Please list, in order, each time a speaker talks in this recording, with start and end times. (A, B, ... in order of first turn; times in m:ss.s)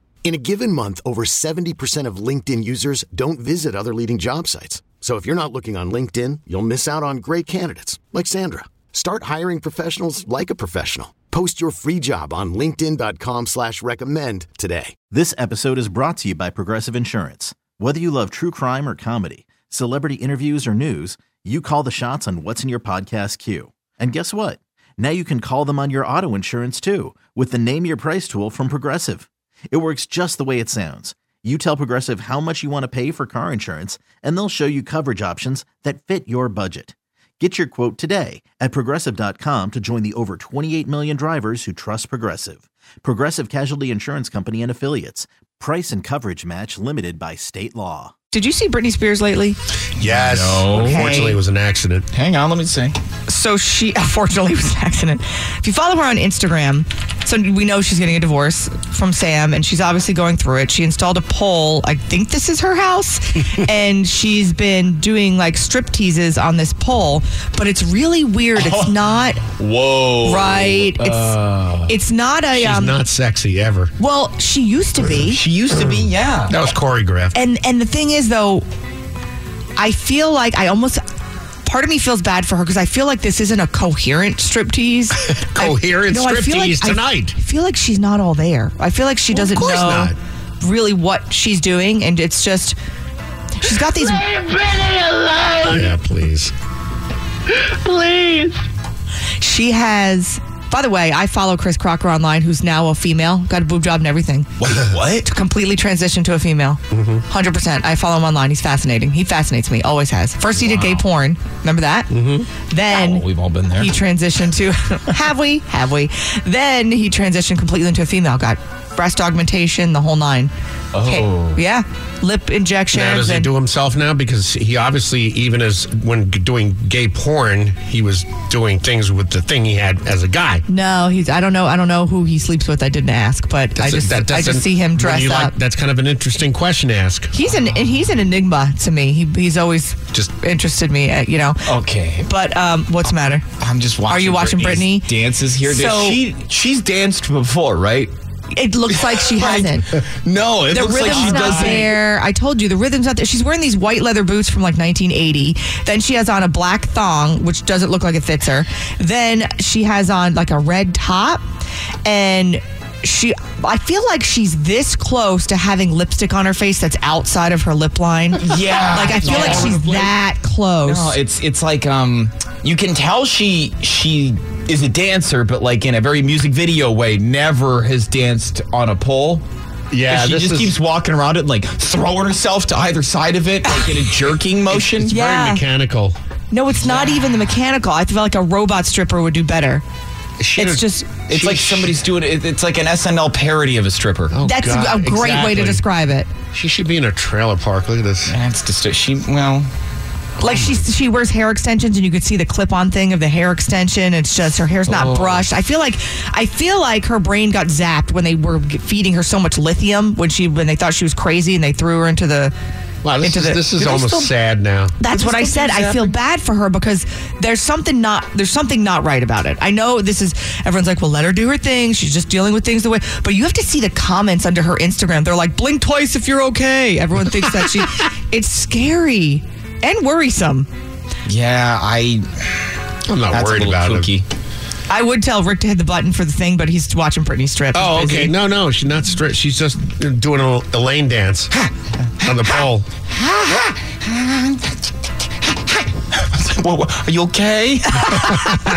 0:00.2-0:15.0 A
0:15.1-0:48.1 B
0:48.3-0:49.6 C
0:50.0-0:51.1 D
0:50.0-0:52.1 E
0:50.7-0:51.4 C
0:52.1-0:53.0 D
0:53.3-1:09.4 C
1:08.6-1:09.0 D
1:09.6-1:11.9 D
1:10.2-1:13.0 C
1:12.5-1:13.9 E
1:14.0-1:15.4 C
1:15.2-1:16.6 D
1:15.7-1:17.3 E
1:17.3-1:18.6 C
1:19.8-1:21.0 C
1:21.6-1:32.8 C
1:25.1-1:27.3 E
1:29.3-1:30.1 E
1:33.6-1:34.3 C
1:35.5-1:36.5 E
1:39.4-1:44.5 C
1:44.6-1:45.2 D
1:45.2-1:53.2 C
1:46.9-1:47.2 E
1:50.7-1:51.0 D
1:52.1-1:52.5 E
1:52.9-1:53.9 D
1:53.8-2:00.5 C
2:00.9-2:01.6 D
2:01.0-2:03.5 C
2:02.9-2:10.6 E
2:10.7-2:15.5 C
2:13.8-2:17.3 E
2:17.3-2:21.7 C
2:21.6-2:22.3 D
2:22.2-2:23.4 C
2:23.6-2:28.1 D
2:24.1-2:26.2 C
2:28.5-2:29.9 C
2:29.4-2:29.7 D
2:30.2-2:32.0 D
2:30.7-2:41.4 C
2:42.0-2:51.2 C
2:48.4-2:49.8 D
2:49.0-2:50.1 E
2:50.8-2:59.4 D
2:59.9-3:00.8 E
3:00.0-3:05.2 D
3:04.7-3:06.2 E
3:05.1-3:05.6 C
3:06.5-3:09.8 C
3:10.4-3:12.1 E
3:10.6-3:11.2 C
3:11.3-3:14.4 D
3:14.3-3:15.8 E
3:14.4-3:16.3 C
3:16.5-3:18.4 E
3:18.3-3:19.7 D
3:20.4-3:32.5 C
3:20.4-3:20.8 E
3:24.9-3:25.4 D
3:33.0-3:35.0 E
3:33.2-3:34.1 C
3:35.0-3:50.7 C
3:35.1-3:36.1 D
3:51.3-3:52.3 D
3:53.1-3:54.1 E
3:53.3-3:54.2 D
3:54.9-3:58.3 C
3:57.7-4:01.5 E
4:02.2-4:02.9 E
4:04.2-4:04.6 D
4:06.2-4:08.4 D